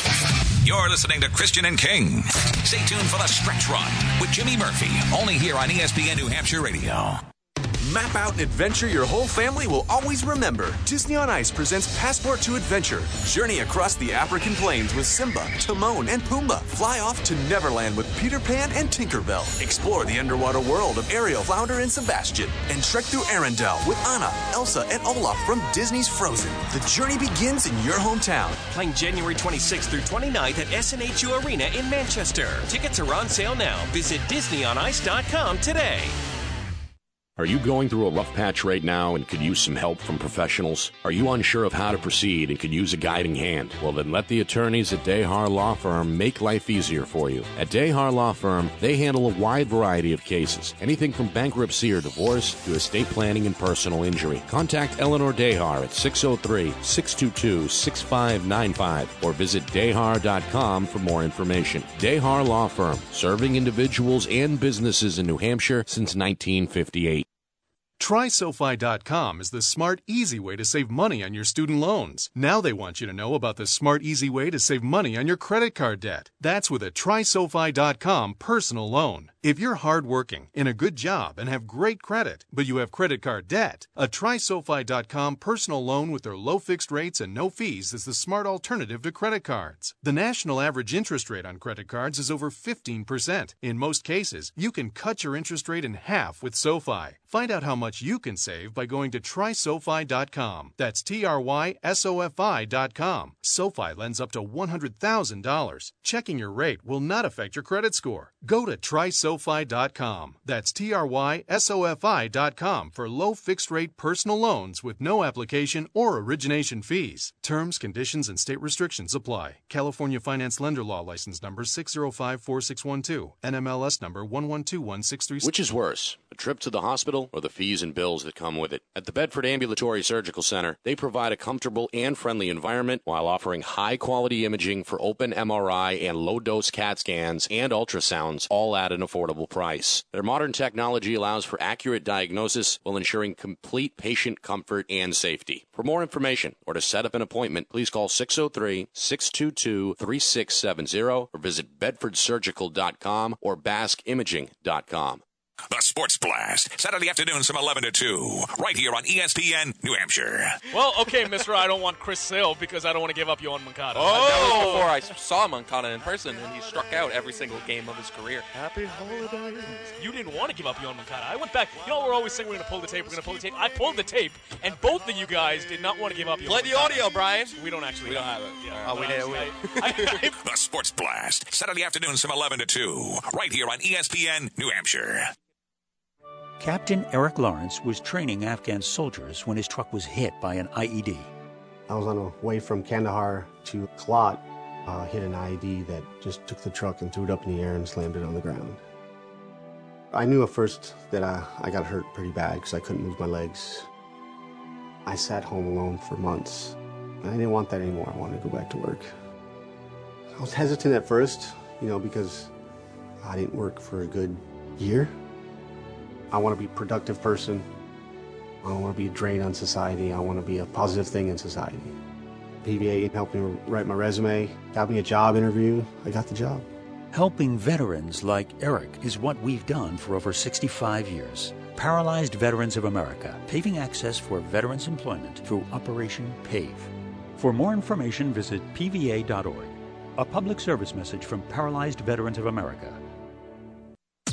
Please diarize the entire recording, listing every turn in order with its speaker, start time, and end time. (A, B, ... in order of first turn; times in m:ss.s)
0:00.6-0:07.2 A
0:07.8-0:28.6 B
0:28.7-0:36.2 C
0:37.4-1:07.2 D
1:08.0-2:05.5 E
2:05.4-2:35.2 D
2:35.7-2:40.6 A
2:40.7-2:45.0 F
2:44.0-2:49.9 G
2:50.0-3:00.4 F
2:56.4-3:00.1 G
3:00.4-3:05.3 A
3:06.6-3:11.3 H
3:11.9-3:18.8 I
3:20.1-3:23.9 I
3:25.0-3:29.1 I
3:30.4-3:32.5 I
3:33.2-3:35.1 I
3:36.3-3:37.7 I
3:38.6-3:41.9 I
3:42.6-3:46.7 I
3:47.1-4:03.0 H